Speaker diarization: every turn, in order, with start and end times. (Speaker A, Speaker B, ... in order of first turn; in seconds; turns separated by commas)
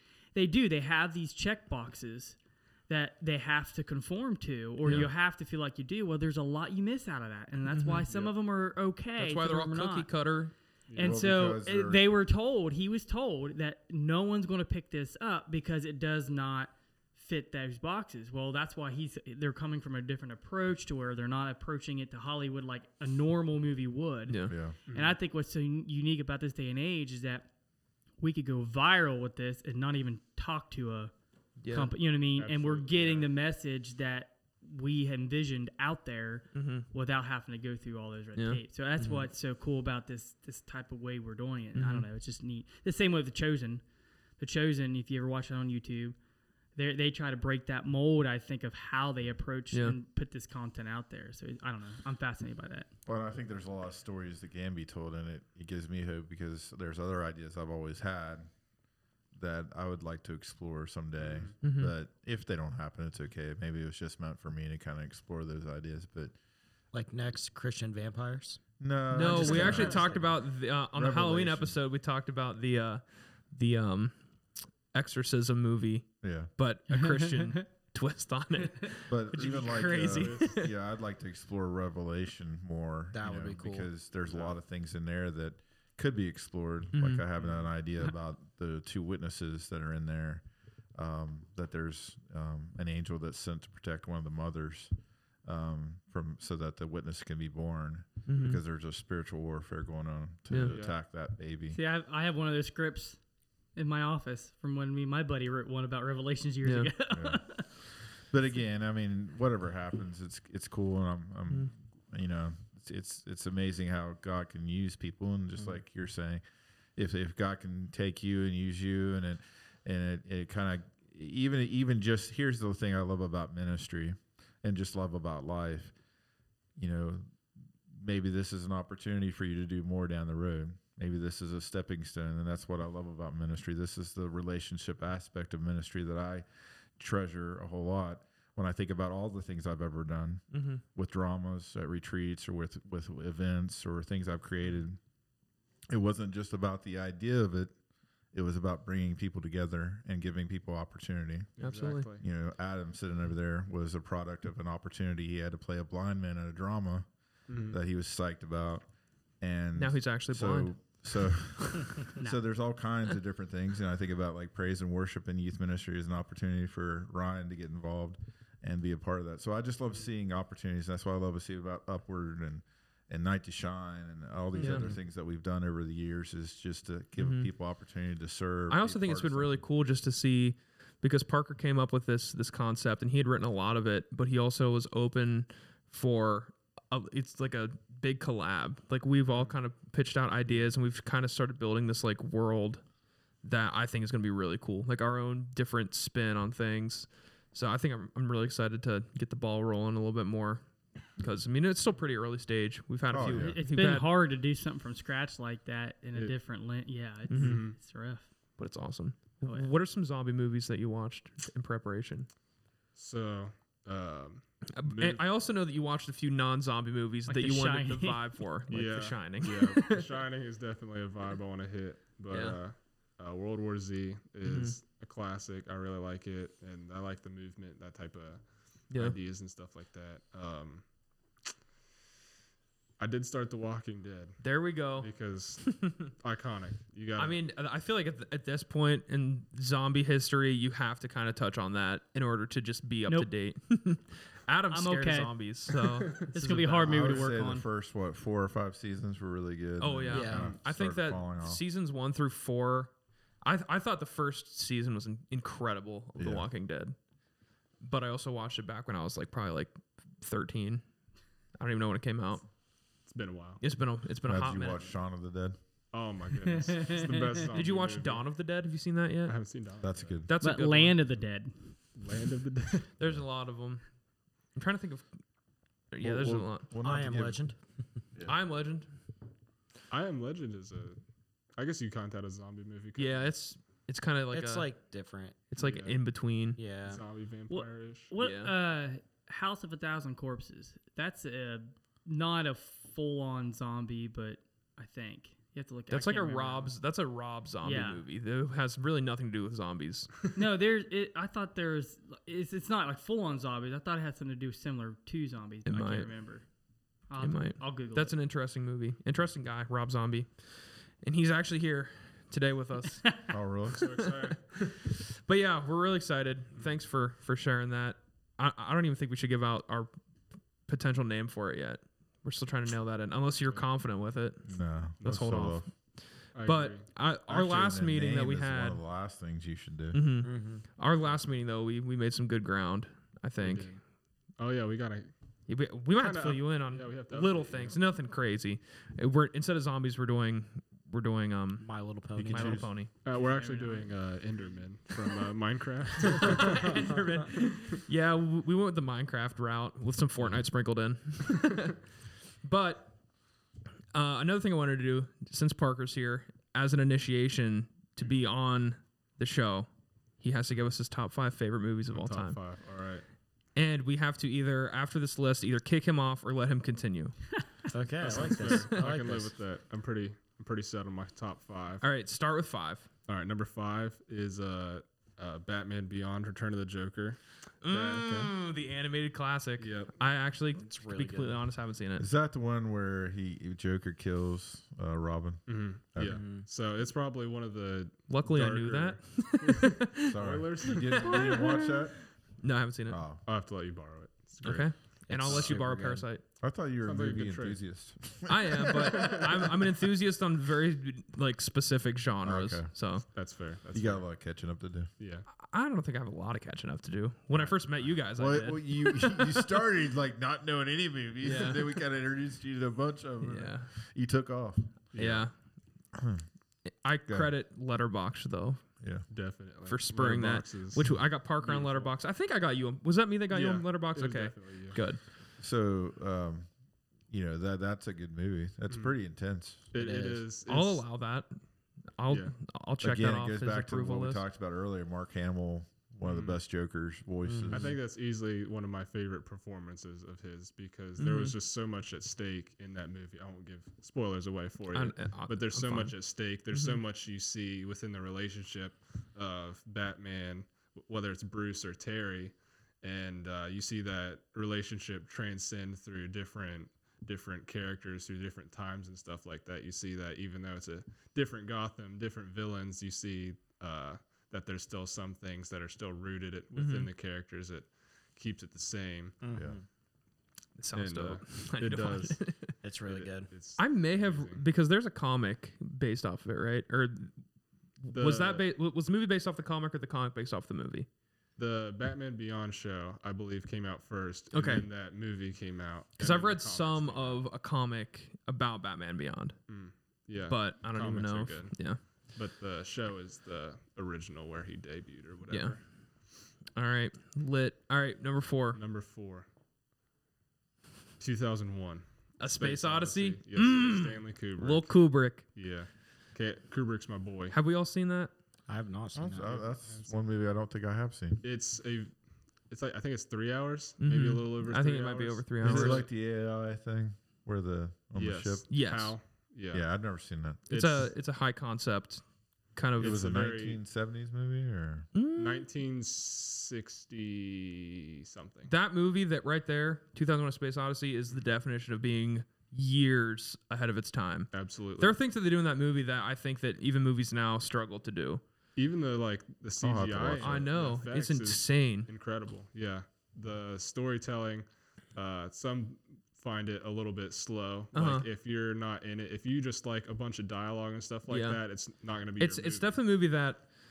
Speaker A: 0.3-2.4, Speaker A: 2.9-10.1, Speaker B: 4.8-5.1, Speaker C: 7.7-8.1, Speaker D: 8.1-8.3, Speaker C: 9.2-10.5, Speaker D: 10.9-11.2, Speaker A: 10.9-27.5, Speaker B: 11.0-12.0, Speaker C: 24.3-24.5, Speaker B: 24.4-24.7, Speaker D: 24.9-25.2, Speaker A: 28.2-31.1, Speaker C: 31.6-31.9, Speaker A: 31.7-43.8, Speaker D: 32.4-33.3, Speaker C: 36.5-36.9, Speaker C: 38.4-39.3, Speaker C: 41.7-42.1, Speaker A: 44.4-46.2, Speaker A: 46.8-52.9, Speaker B: 53.0-58.5, Speaker B: 59.3-66.3, Speaker D: 61.2-61.5, Speaker C: 61.6-61.9, Speaker E: 66.9-68.6, Speaker B: 68.8-70.0, Speaker C: 69.1-74.2, Speaker E: 69.2-70.2, Speaker A: 69.7-70.0, Speaker B: 70.9-71.8, Speaker C: 74.9-80.7, Speaker B: 76.2-76.5, Speaker A: 76.9-77.6, Speaker B: 79.1-90.4, Speaker D: 79.4-80.7, Speaker E: 83.1-83.9, Speaker D: 84.3-84.5, Speaker C: 86.9-87.2, Speaker D: 87.4-87.7, Speaker B: 90.9-94.9, Speaker B: 95.4-101.8, Speaker C: 98.3-98.6, Speaker D: 100.7-100.9, Speaker A: 101.7-103.2, Speaker A: 103.7-107.6, Speaker C: 106.6-106.9, Speaker B: 107.1-107.7, Speaker B: 108.3-116.4, Speaker B: 117.0-125.9, Speaker B: 126.8-127.3, Speaker B: 127.9-136.4, Speaker B: 137.0-145.0, Speaker C: 140.5-140.8, Speaker B: 145.9-147.7, Speaker B: 148.3-151.5, Speaker D: 151.6-152.2, Speaker C: 151.6-152.1, Speaker B: 152.2-157.1, Speaker D: 157.5-157.8, Speaker B: 157.7-158.9, Speaker B: 159.4-179.6, Speaker C: 159.8-162.0, Speaker A: 162.2-162.4, Speaker E: 174.5-175.0, Speaker C: 174.6-174.9, Speaker C: 177.2-177.5, Speaker C: 178.7-192.8, Speaker C: 193.4-200.6, Speaker C: 201.2-204.1, Speaker B: 203.1-203.6, Speaker A: 203.3-208.2, Speaker C: 207.3-207.6, Speaker D: 207.3-207.8, Speaker C: 208.6-212.3, Speaker A: 209.4-209.7, Speaker D: 212.9-215.2, Speaker C: 214.7-220.1, Speaker A: 217.3-218.2, Speaker D: 218.7-230.8, Speaker C: 222.3-222.6, Speaker C: 224.4-224.7, Speaker C: 228.9-229.2, Speaker D: 233.0-234.4, Speaker C: 234.4-236.1, Speaker D: 235.0-237.4, Speaker C: 237.2-247.2, Speaker A: 244.7-245.3, Speaker D: 245.9-246.3, Speaker A: 246.3-247.7, Speaker B: 246.8-251.6, Speaker C: 249.8-256.9, Speaker E: 250.1-250.5, Speaker B: 256.1-256.5, Speaker C: 257.8-260.8, Speaker C: 261.6-262.5, Speaker D: 263.1-263.6, Speaker C: 263.6-264.9, Speaker B: 264.2-265.6, Speaker D: 265.9-268.2, Speaker A: 266.5-267.4, Speaker C: 267.5-269.4, Speaker D: 269.2-270.2, Speaker B: 269.8-270.3, Speaker C: 270.2-271.0, Speaker A: 270.4-271.7, Speaker D: 271.9-272.9, Speaker C: 273.0-273.9, Speaker C: 274.5-275.1, Speaker C: 275.9-276.7, Speaker B: 276.0-277.4, Speaker E: 276.8-277.6, Speaker C: 278.2-278.9, Speaker D: 279.9-281.0, Speaker D: 281.6-283.3, Speaker C: 283.0-284.7, Speaker E: 284.3-285.4, Speaker C: 285.5-286.6, Speaker D: 285.6-286.0, Speaker E: 286.6-287.0, Speaker D: 286.8-288.1, Speaker A: 287.5-296.7, Speaker C: 288.2-288.5, Speaker C: 295.9-300.2, Speaker A: 297.6-298.0, Speaker A: 300.3-306.4, Speaker C: 305.6-306.1, Speaker A: 307.1-308.1, Speaker C: 307.2-310.3, Speaker C: 311.0-313.2, Speaker B: 313.3-313.9, Speaker D: 313.7-314.5, Speaker C: 313.8-319.9, Speaker C: 320.7-324.5, Speaker B: 324.5-325.7, Speaker C: 325.0-328.8, Speaker D: 325.0-325.3, Speaker D: 326.3-326.9, Speaker B: 327.3-330.0, Speaker C: 329.9-333.8, Speaker E: 330.2-330.6, Speaker D: 333.4-333.8, Speaker D: 334.4-335.1, Speaker C: 335.5-341.7, Speaker D: 335.9-337.8, Speaker E: 341.6-342.6, Speaker B: 342.1-342.7, Speaker C: 342.2-342.9, Speaker D: 343.0-346.8, Speaker A: 343.1-343.9, Speaker C: 346.1-351.8, Speaker E: 346.5-346.9, Speaker C: 352.4-353.0, Speaker C: 353.9-359.7, Speaker C: 360.2-362.4, Speaker D: 361.9-363.0, Speaker C: 363.6-367.4, Speaker E: 367.7-369.3, Speaker D: 368.0-371.9, Speaker C: 368.1-368.8, Speaker C: 371.8-372.9, Speaker D: 373.1-378.3, Speaker C: 377.6-382.1, Speaker D: 379.6-379.9, Speaker E: 380.6-381.4, Speaker B: 382.0-386.2, Speaker D: 385.5-391.4, Speaker E: 386.0-386.4, Speaker C: 388.1-393.0, Speaker B: 390.1-392.0, Speaker B: 392.9-393.2, Speaker D: 393.2-394.9, Speaker C: 394.4-396.2, Speaker E: 395.1-396.1, Speaker B: 396.4-399.3, Speaker D: 396.8-397.6, Speaker C: 398.3-403.1, Speaker D: 398.9-399.3, Speaker B: 402.2-402.7, Speaker D: 403.1-404.1, Speaker B: 403.7-404.9, Speaker D: 405.0-405.2, Speaker C: 405.4-409.5, Speaker B: 407.3-407.6, Speaker B: 408.1-415.2, Speaker C: 411.2-411.8, Speaker C: 413.2-413.7, Speaker D: 414.9-415.2, Speaker C: 415.0-415.3, Speaker B: 415.9-416.2, Speaker C: 416.8-418.6, Speaker D: 419.1-421.9, Speaker C: 419.7-425.0, Speaker D: 423.3-424.8, Speaker B: 425.4-426.5, Speaker B: 427.1-429.6, Speaker D: 429.7-430.9, Speaker E: 429.7-430.2, Speaker C: 430.5-431.4, Speaker C: 432.0-434.2, Speaker D: 432.1-432.3, Speaker B: 432.8-437.8, Speaker D: 436.0-436.4, Speaker E: 437.2-437.8, Speaker D: 437.5-469.2, Speaker C: 441.0-441.3, Speaker C: 444.7-446.8, Speaker C: 466.5-466.9, Speaker E: 469.2-469.6, Speaker C: 470.6-472.6, Speaker D: 470.7-472.2, Speaker E: 472.6-473.3, Speaker D: 472.8-474.4, Speaker C: 473.6-477.1, Speaker C: 477.8-480.9, Speaker D: 477.9-478.4, Speaker D: 481.4-487.2, Speaker C: 484.3-484.7, Speaker C: 486.0-489.4, Speaker D: 489.5-495.6, Speaker C: 490.3-491.8, Speaker C: 495.3-495.6, Speaker C: 496.5-498.6, Speaker D: 498.5-499.3, Speaker D: 501.0-504.7, Speaker C: 502.2-505.3, Speaker D: 505.2-507.4, Speaker C: 507.3-508.1, Speaker E: 508.5-509.3, Speaker B: 508.9-511.2, Speaker D: 509.2-510.0, Speaker D: 511.2-512.0, Speaker D: 512.5-515.9, Speaker C: 513.8-515.8, Speaker B: 515.4-518.4, Speaker D: 518.0-519.6, Speaker C: 518.5-519.0, Speaker B: 519.5-520.5, Speaker D: 520.5-520.8, Speaker C: 520.5-522.0, Speaker C: 522.5-523.0, Speaker D: 522.8-523.6, Speaker B: 522.8-524.9, Speaker C: 524.9-525.5, Speaker D: 525.1-528.5, Speaker C: 528.5-538.2, Speaker D: 534.3-535.0, Speaker D: 538.5-552.8, Speaker B: 539.6-540.5, Speaker C: 540.1-541.9, Speaker C: 547.7-548.1, Speaker C: 551.1-551.4, Speaker C: 552.2-553.5